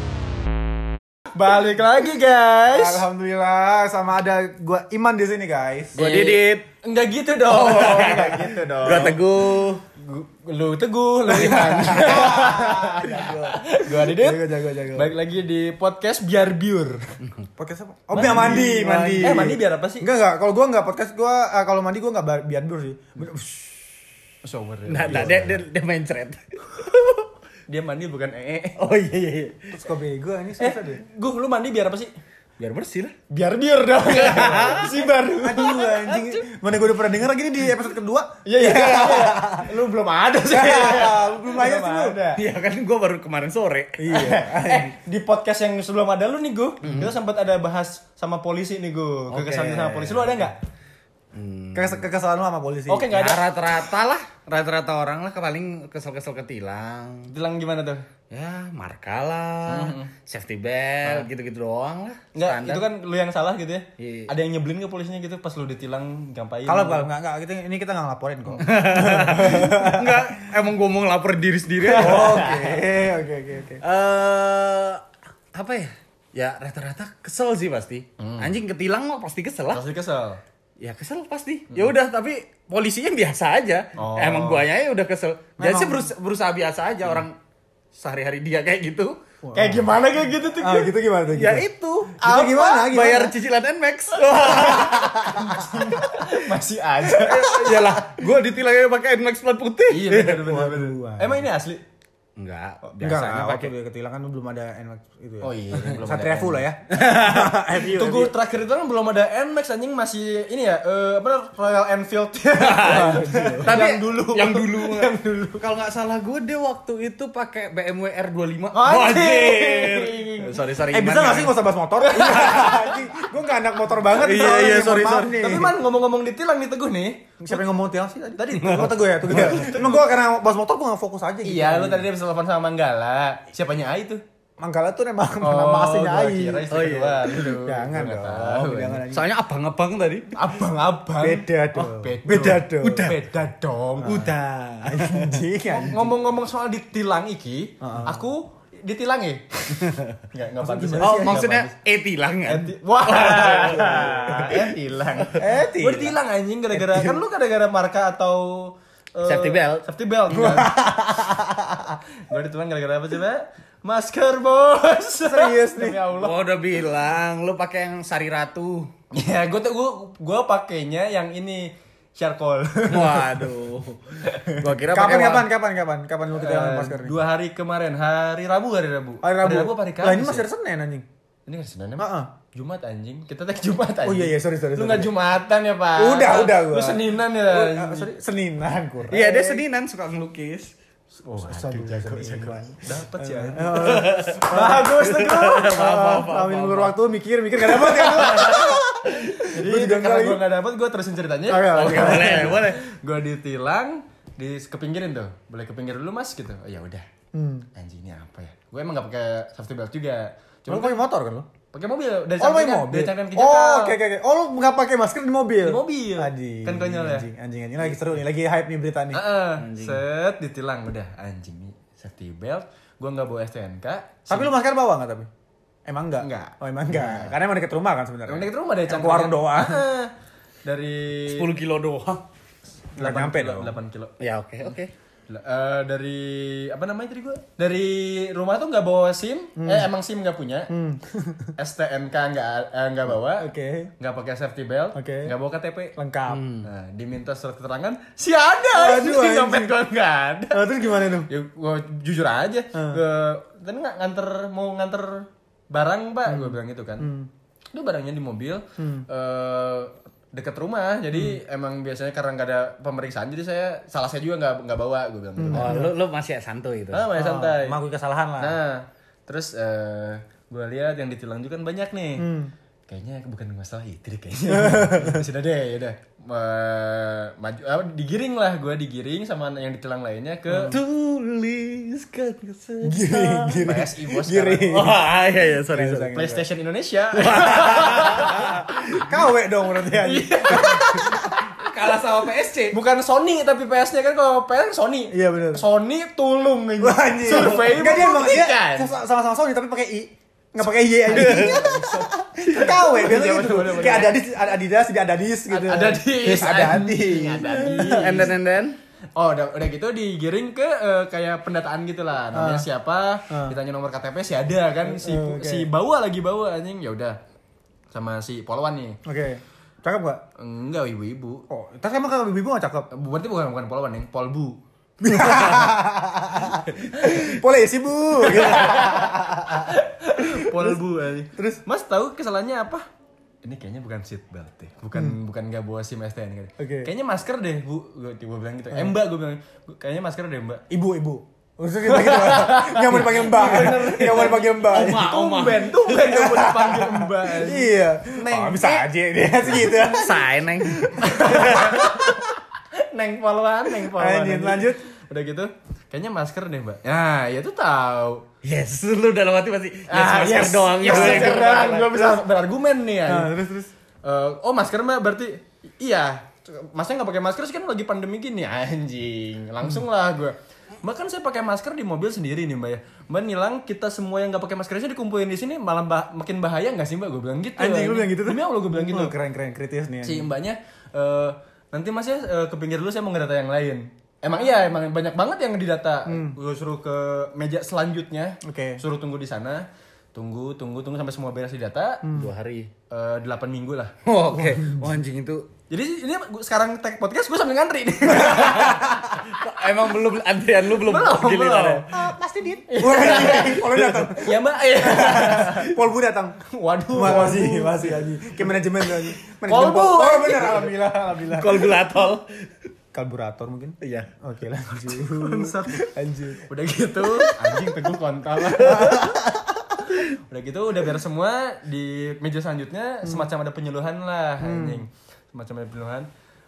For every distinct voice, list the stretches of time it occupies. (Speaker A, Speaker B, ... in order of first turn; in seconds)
Speaker A: 1.3-3.0, 5.9-9.2, 9.9-17.0, 18.1-20.1, 24.4-25.6, 27.7-28.8, 30.6-32.1, 33.3-36.3, 38.4-42.4, 44.1-50.5, 52.9-53.4, 57.3-58.1, 59.7-60.1, 62.3-67.1, 71.9-72.6, 78.2-78.5, 79.7-80.4, 84.0-84.6, 89.5-90.9, 94.4-97.6, 99.9-101.8, 105.4-106.6, 107.8-115.6, 118.7-120.6, 122.0-123.1, 125.3-127.5, 128.3-129.9, 131.4-134.2, 135.4-139.0, 140.3-144.3, 145.7-151.7, 152.4-160.8, 162.3-166.4, 169.1-173.5, 174.2-174.6, 176.3-180.5, 181.5-188.1, 191.2-195.8, 197.9-207.1, 207.7-211.0, 211.7-213.9, 215.6-217.3, 219.1-224.5, 226.2-227.3, 228.3-230.1, 230.6-231.5, 232.9-234.2, 235.3-240.7, 241.6-243.5, 244.0-245.9, 246.6-250.6, 251.2-257.1, 257.7-265.8, 266.9-267.8, 268.4-272.3, 272.9-280.8, 283.6-284.9, 286.1-289.0, 290.0-291.4, 292.7-298.9, 301.1-304.2, 305.5-308.3, 309.1-317.2, 317.9-319.0, 320.4-321.5, 322.9-325.7, 326.6-327.4, 328.2-332.9, 333.4-340.6, 341.8-348.8, 351.0-358.2, 359.9-363.3, 364.0-379.1, 380.0-392.0, 392.9-394.6, 395.7-399.1, 400.7-401.9, 402.7-405.8, 406.4-408.5, 409.5-410.6, 415.1-415.8, 416.4-419.2, 419.9-426.1
Speaker B: 2.7-6.0, 7.8-8.4, 11.3-15.1, 17.6-24.0, 29.7-31.0, 35.3-39.7, 40.5-42.2, 44.0-44.9, 51.7-53.1, 66.7-70.3, 71.9-73.8, 85.6-86.1, 89.4-89.9, 90.6-93.3, 94.4-96.0, 97.6-98.0, 100.3-101.5, 103.0-108.3, 112.8-113.8, 120.9-125.8, 127.4-132.1, 134.6-136.7, 137.4-139.3, 141.2-143.2, 144.0-144.3, 144.8-146.2, 147.8-148.2, 150.6-151.5, 153.7-154.5, 155.3-156.2, 160.3-162.0, 165.2-166.0, 174.9-177.2, 179.2-181.1, 182.0-182.3, 184.0-185.1, 185.9-189.6, 191.4-200.4, 201.5-202.6, 207.3-207.7, 210.7-211.5, 212.4-219.2, 224.3-225.3, 225.8-229.8, 233.0-233.8, 239.6-239.9, 240.7-241.6, 243.1-243.9, 244.9-245.3, 245.9-246.5, 248.7-249.8, 250.5-251.3, 252.7-253.0, 256.3-257.3, 258.8-259.1, 261.1-261.4, 265.4-265.9, 267.1-268.6, 272.2-272.5, 274.5-275.2, 280.5-280.8, 282.8-285.0, 285.6-286.4, 287.4-291.4, 295.1-295.6, 296.8-308.3, 312.3-312.6, 313.3-313.6, 314.8-315.7, 319.0-320.2, 321.5-322.9, 325.0-330.8, 331.3-331.6, 336.6-336.9, 340.7-345.1, 346.0-352.4, 353.7-354.8, 360.8-361.4, 363.1-363.7, 377.6-380.3, 386.1-386.4, 388.4-388.8, 392.0-392.3, 398.1-399.2, 401.9-411.7, 412.9-416.4, 418.6-419.8, 423.0-423.3, 424.4-424.8
Speaker C: 5.9-6.6, 7.5-9.8, 11.3-12.4, 18.2-19.5, 24.9-27.2, 28.8-29.7, 32.6-33.1, 34.1-35.0, 42.3-44.2, 46.8-47.1, 49.3-50.3, 51.3-52.0, 53.1-57.3, 58.3-62.9, 64.0-64.3, 68.6-72.8, 73.8-79.8, 80.8-87.3, 87.9-89.2, 91.3-95.5, 97.1-100.5, 102.4-103.7, 106.9-107.5, 112.6-121.5, 124.1-125.5, 136.7-137.5, 139.1-140.3, 144.0-145.4, 149.8-150.1, 151.0-154.6, 159.2-159.8, 166.1-168.9, 172.9-175.5, 189.1-190.7, 193.7-197.0, 197.8-198.6, 201.7-202.8, 219.6-220.0, 231.2-232.2, 234.2-234.9, 246.3-246.7, 265.5-267.1, 280.7-283.7, 284.7-286.3, 287.1-288.5, 290.5-292.8, 301.1-301.6, 307.6-308.8, 344.2-346.2, 349.6-351.8, 358.4-362.2, 392.1-392.7, 394.1-395.5, 399.2-401.9, 403.0-403.6, 409.5-410.7, 411.2-412.3, 413.8-414.1, 417.2-417.6, 418.4-419.1